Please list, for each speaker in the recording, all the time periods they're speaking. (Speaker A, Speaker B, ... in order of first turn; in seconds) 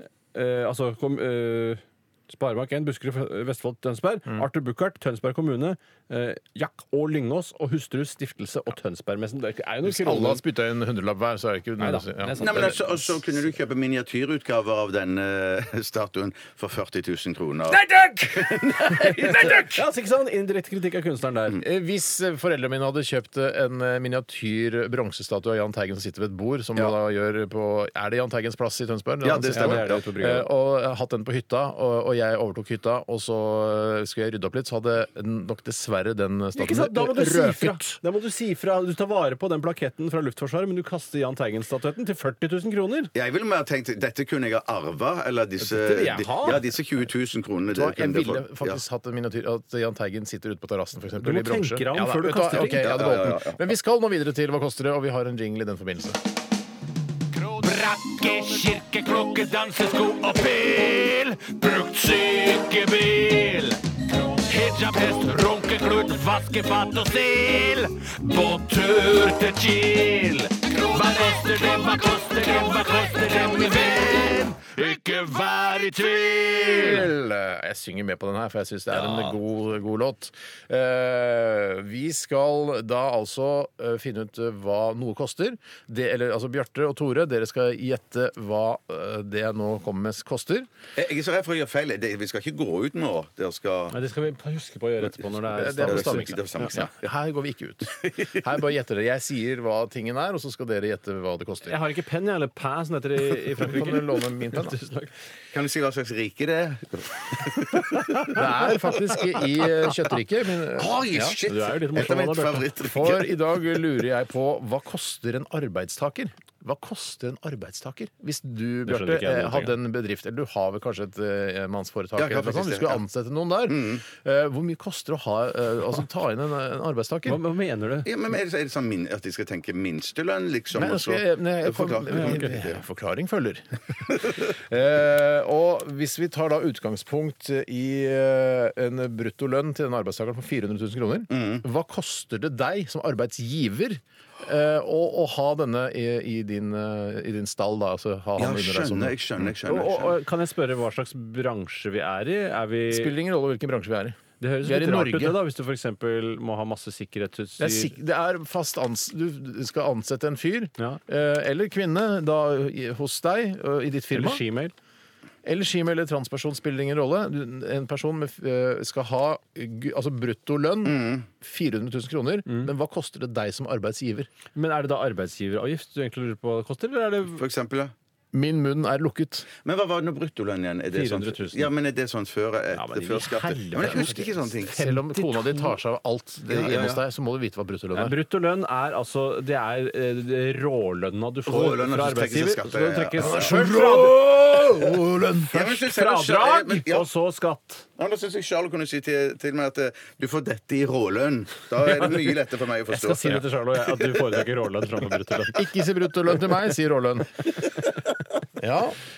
Speaker A: 0.3-10.4, 11.8-12.8, 17.9-21.6, 29.5-30.5, 36.5-43.1, 45.7-46.6, 51.2-53.0, 93.9-96.7, 101.7-105.1, 111.2-112.7, 118.8-119.8, 127.2-128.1, 132.1-132.5, 149.7-153.1, 154.4-157.9, 164.1-164.7, 174.5-177.4, 180.9-181.7, 182.7-185.8, 187.9-194.3, 195.5-197.8, 202.9-205.7
Speaker B: 9.8-13.0, 21.6-38.0, 47.7-56.2, 76.6-90.7, 95.5-101.8, 103.5-104.8, 108.3-111.3, 112.8-127.4, 130.7-149.2, 152.9-155.4, 157.6-164.4, 165.4-174.3, 178.3-179.5, 184.7-188.1, 193.2-195.6, 205.5-207.4, 208.6-209.0
Speaker C: 12.4-19.7, 29.2-30.0, 43.1-48.8, 52.8-53.6, 91.0-94.0, 95.8-96.9, 105.5-108.4, 110.7-113.4, 122.2-123.0, 123.7-124.0, 128.0-132.8, 141.3-141.6, 148.4-150.2, 170.8-171.2, 177.3-177.9, 179.6-184.7, 186.5-187.0, 191.5-193.6, 195.5-197.1, 198.0-203.4
Speaker D: 57.4-77.1